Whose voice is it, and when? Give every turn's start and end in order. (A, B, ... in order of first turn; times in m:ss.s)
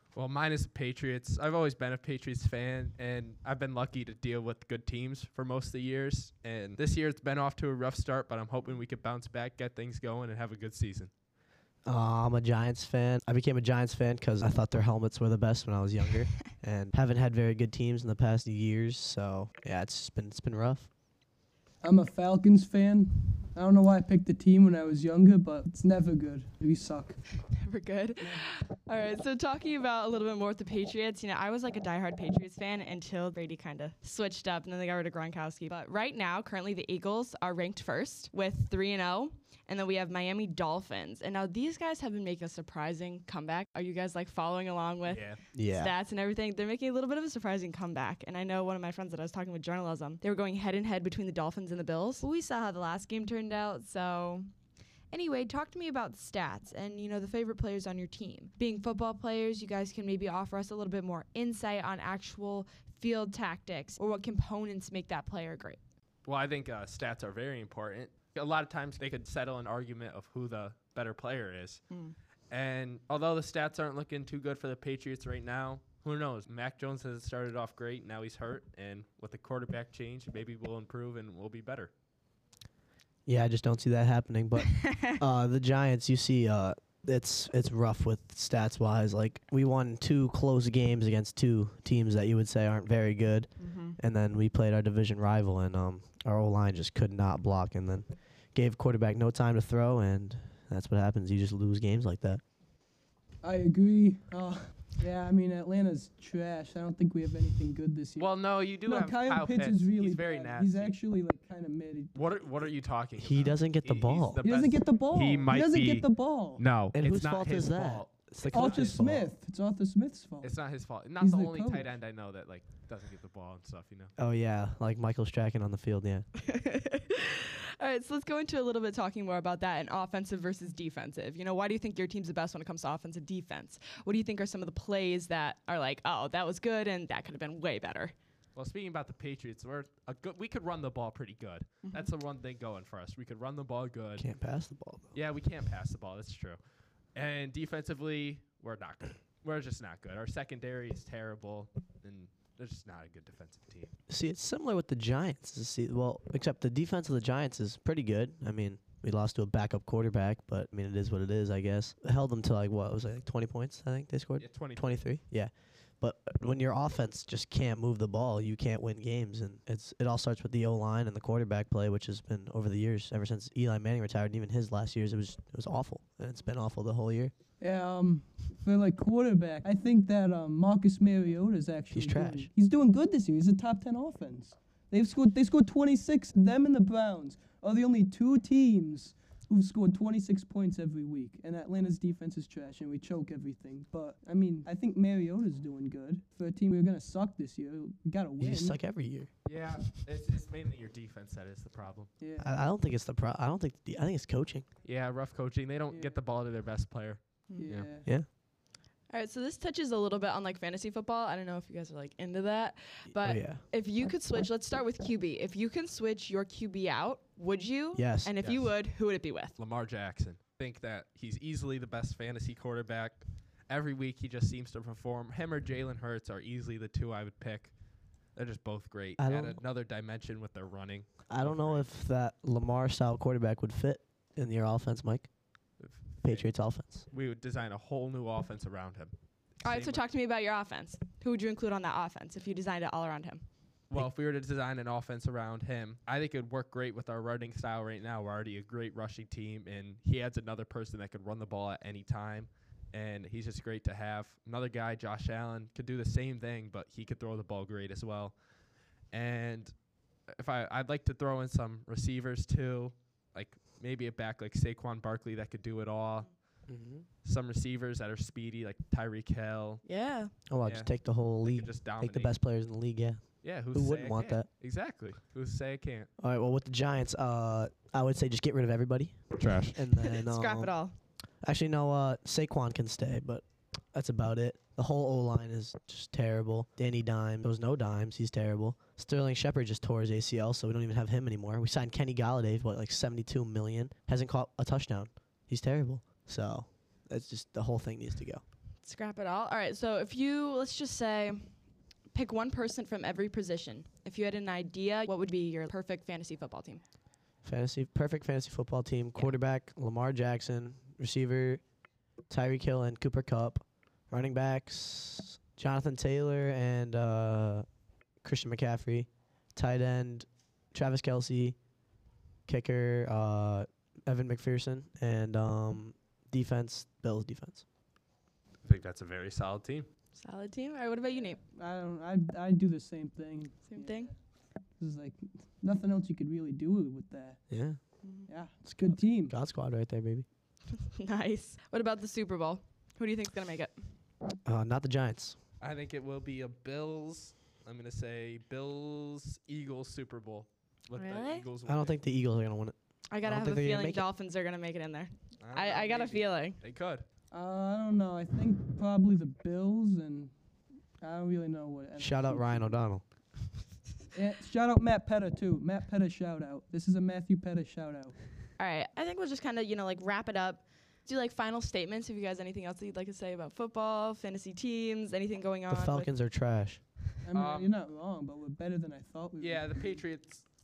0:00.2-0:11.1 A
0:11.8-0:20.9 B
0:21.8-0:27.2 C
0:27.5-0:54.5 D
0:28.2-0:28.4 C
0:45.1-0:45.4 A
0:45.5-0:45.9 B
0:55.1-1:05.8 D
1:06.3-1:11.8 A
1:12.5-1:21.9 A
1:23.3-1:42.4 B
1:24.6-1:25.2 D
1:33.7-1:33.9 D
1:43.4-1:48.3 C
1:48.2-1:50.9 A
1:48.8-1:52.2 C
1:52.1-1:59.1 A
1:53.2-1:54.4 B
1:54.4-1:56.6 C
1:56.9-1:59.3 B
1:58.5-2:00.6 C
2:00.4-2:04.1 A
2:01.2-2:01.9 C
2:04.2-2:06.3 B
2:06.4-2:18.1 D
2:18.6-2:24.2 A
2:24.2-2:25.1 B
2:25.1-2:26.6 A
2:27.2-2:33.9 A
2:34.1-2:57.3 B
2:44.4-2:45.0 A
2:57.6-3:18.8 C
3:01.9-3:02.5 B
3:18.4-3:19.3 B
3:19.5-3:22.1 A
3:22.2-3:22.5 C
3:22.4-3:24.7 B
3:24.8-3:27.9 A
3:25.9-3:26.2 C
3:27.6-3:28.1 C
3:29.1-3:39.6 D
3:33.1-3:33.6 B
3:38.0-3:38.4 B
3:38.4-3:38.7 A
3:39.6-3:47.7 A
3:48.4-3:51.9 A
3:49.2-3:49.6 B
3:51.3-3:55.3 B
3:55.8-3:56.5 A
3:56.2-3:57.0 B
3:57.0-4:00.0 A
3:59.6-4:03.4 D
4:03.9-4:18.4 A
4:19.1-4:19.7 A
4:20.4-4:26.3 A
4:26.7-4:27.1 B
4:27.2-4:29.8 A
4:29.8-4:30.3 D
4:30.5-4:34.5 B
4:30.6-4:30.9 A
4:31.4-4:32.4 A
4:33.4-4:36.1 A
4:36.2-4:40.7 B
4:39.4-4:39.8 A
4:40.0-4:41.0 D
4:41.4-4:58.4 B
4:58.8-5:01.5 D
5:02.1-5:06.8 D
5:07.4-5:11.6 B
5:12.3-5:17.6 B
5:18.2-5:21.6 B
5:22.5-5:27.6 B
5:28.6-5:29.9 A
5:30.2-5:31.4 D
5:31.5-5:34.1 C
5:33.7-5:34.1 D
5:34.8-5:37.4 C
5:37.5-5:37.8 B
5:38.0-5:38.3 D
5:38.3-5:39.4 C
5:39.2-5:40.2 B
5:40.7-5:43.8 D
5:44.4-5:45.4 B
5:45.6-5:52.0 A
5:51.0-5:51.5 D
5:51.7-5:54.0 B
5:53.1-5:56.6 D
5:55.4-5:57.1 A
5:57.3-6:00.3 C
6:01.0-6:02.7 C
6:02.0-6:03.0 B
6:04.1-6:08.2 C
6:08.6-6:16.1 D
6:15.7-6:16.8 B
6:17.2-6:20.0 C
6:17.3-6:17.8 A
6:19.4-6:20.4 A